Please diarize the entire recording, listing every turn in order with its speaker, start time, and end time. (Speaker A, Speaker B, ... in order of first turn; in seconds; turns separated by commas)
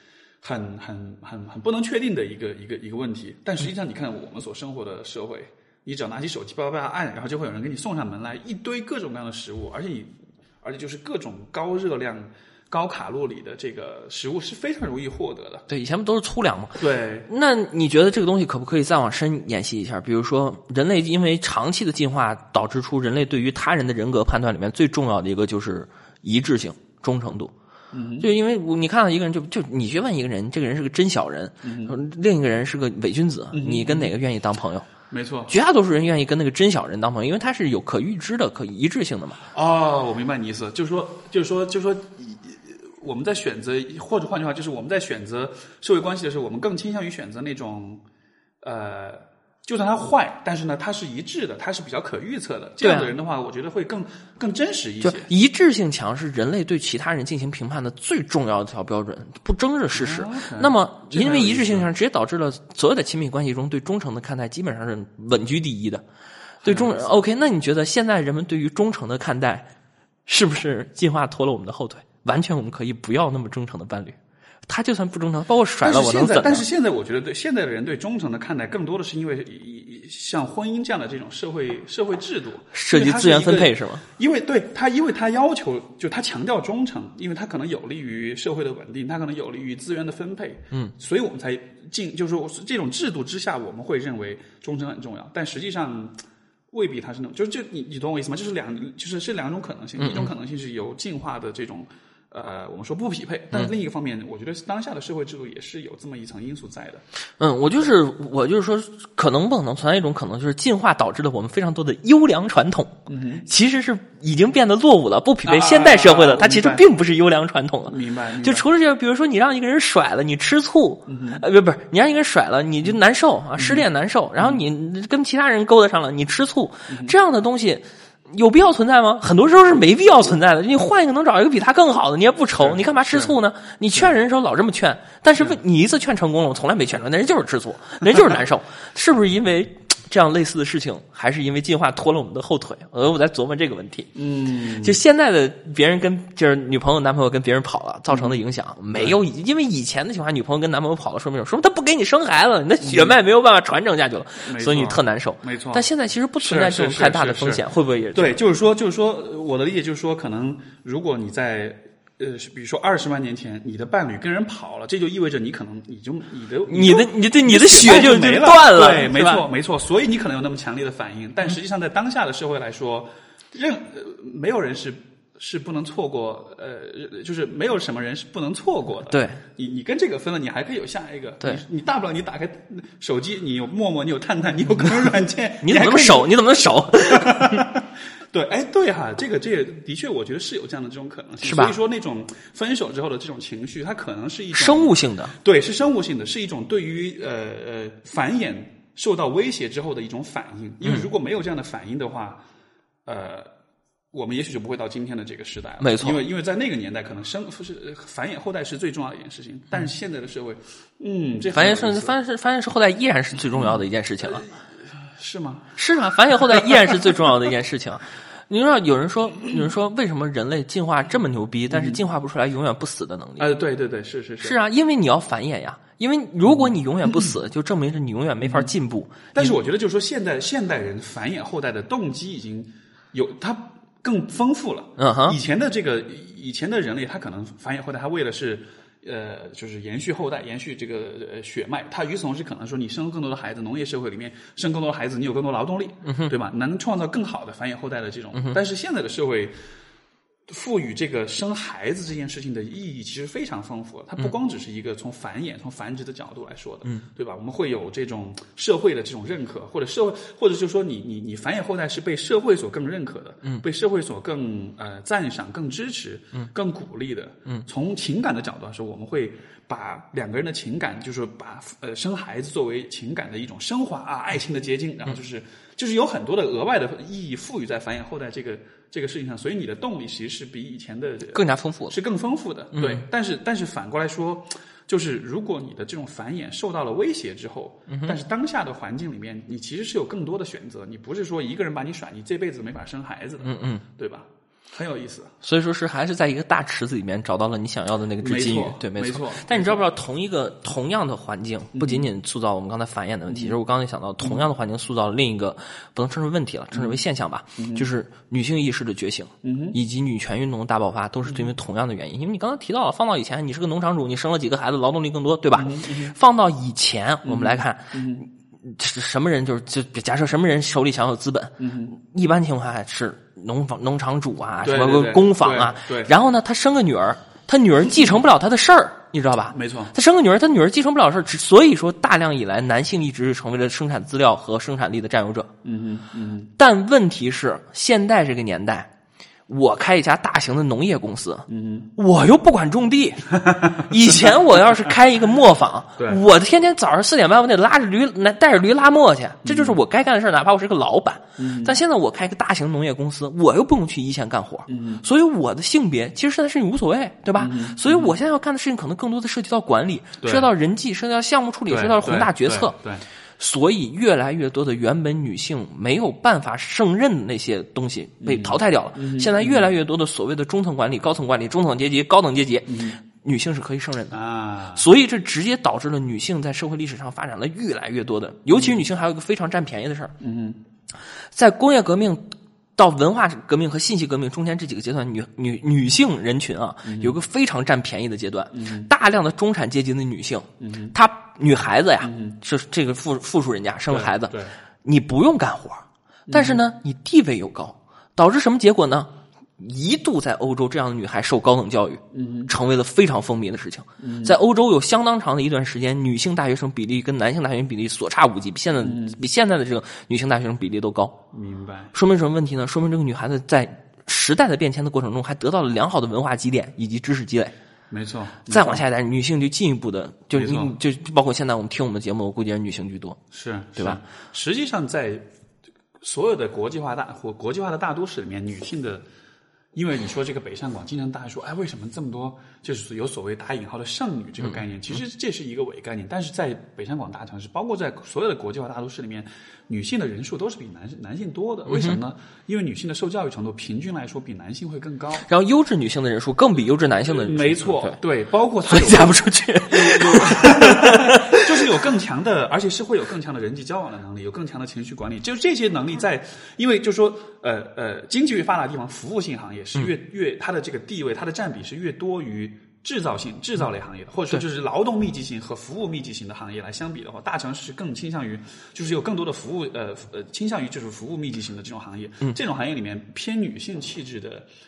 Speaker A: 0.4-15.6, Speaker B: 15.7-27.5, Speaker A: 16.8-17.3, Speaker A: 27.9-28.3, Speaker B: 28.2-34.9, Speaker A: 31.6-31.9, Speaker A: 33.5-34.1, Speaker A: 35.1-35.5, Speaker B: 35.5-39.5, Speaker A: 39.5-48.0, Speaker A: 48.6-55.3, Speaker B: 52.8-53.1, Speaker B: 55.0-66.0, Speaker A: 59.9-61.9, Speaker A: 66.6-67.0, Speaker B: 66.6-69.7, Speaker B: 70.3-76.6, Speaker A: 75.8-96.2, Speaker B: 82.7-84.0, Speaker A: 96.7-107.0, Speaker B: 100.0-100.3, Speaker B: 107.4-144.1, Speaker A: 113.1-113.5, Speaker A: 115.4-116.9, Speaker A: 117.9-118.7, Speaker A: 121.1-121.4, Speaker A: 123.5-123.8, Speaker A: 126.9-127.1, Speaker A: 132.6-133.3, Speaker A: 144.1-145.0, Speaker B: 144.7-158.4, Speaker A: 148.1-148.4, Speaker A: 152.8-153.2, Speaker A: 154.4-155.9, Speaker A: 156.4-202.4, Speaker B: 166.7-169.4, Speaker B: 179.1-179.4, Speaker B: 185.6-187.6, Speaker B: 191.4-191.8, Speaker B: 194.5-195.3, Speaker A: 203.1-203.5, Speaker A: 204.1-212.2, Speaker B: 205.8-206.2, Speaker B: 211.5-214.4, Speaker A: 213.5-215.8, Speaker B: 215.8-223.5, Speaker A: 221.7-222.0, Speaker A: 223.4-224.6, Speaker B: 224.4-229.6, Speaker A: 226.4-227.3, Speaker A: 228.4-228.7, Speaker A: 229.3-249.5, Speaker B: 235.0-235.4, Speaker B: 246.0-246.3, Speaker B: 248.3-248.6, Speaker A: 250.5-295.4, Speaker B: 281.3-282.0, Speaker B: 282.8-283.0, Speaker B: 287.9-288.1, Speaker B: 293.4-293.8, Speaker B: 295.4-335.5, Speaker A: 298.2-299.8, Speaker A: 301.7-302.1, Speaker A: 303.3-303.6, Speaker A: 306.7-307.0, Speaker A: 307.6-307.9, Speaker A: 309.4-309.8, Speaker A: 311.2-311.5, Speaker A: 315.5-316.1, Speaker A: 317.2-318.3, Speaker A: 321.6-321.9, Speaker A: 324.6-326.1, Speaker A: 329.5-329.9, Speaker A: 335.6-336.5, Speaker B: 336.6-338.9, Speaker B: 339.5-362.7, Speaker A: 341.5-341.9, Speaker A: 343.5-343.9, Speaker A: 346.0-346.2, Speaker A: 349.4-349.8, Speaker A: 351.4-351.8, Speaker A: 354.7-355.0, Speaker A: 357.4-358.1, Speaker A: 360.2-360.5, Speaker A: 361.7-363.1, Speaker B: 363.4-374.2, Speaker A: 368.2-369.7, Speaker A: 372.7-373.0, Speaker A: 374.1-374.9, Speaker B: 374.7-380.1, Speaker A: 378.5-378.9, Speaker A: 380.2-380.6, Speaker B: 381.3-411.2, Speaker A: 386.8-387.2, Speaker A: 388.5-388.9, Speaker A: 390.6-390.9, Speaker A: 392.0-392.4, Speaker A: 393.9-394.6, Speaker A: 396.3-396.6, Speaker A: 402.1-402.5, Speaker A: 404.0-404.4, Speaker A: 408.8-409.2, Speaker A: 411.3-411.9, Speaker B: 411.9-417.5, Speaker A: 417.9-418.8, Speaker B: 418.5-423.2, Speaker A: 420.3-420.7, Speaker A: 423.3-425.3, Speaker A: 426.0-429.0, Speaker A: 429.7-445.2, Speaker B: 441.7-442.0, Speaker B: 445.2-448.0, Speaker A: 447.2-474.5, Speaker B: 448.6-451.7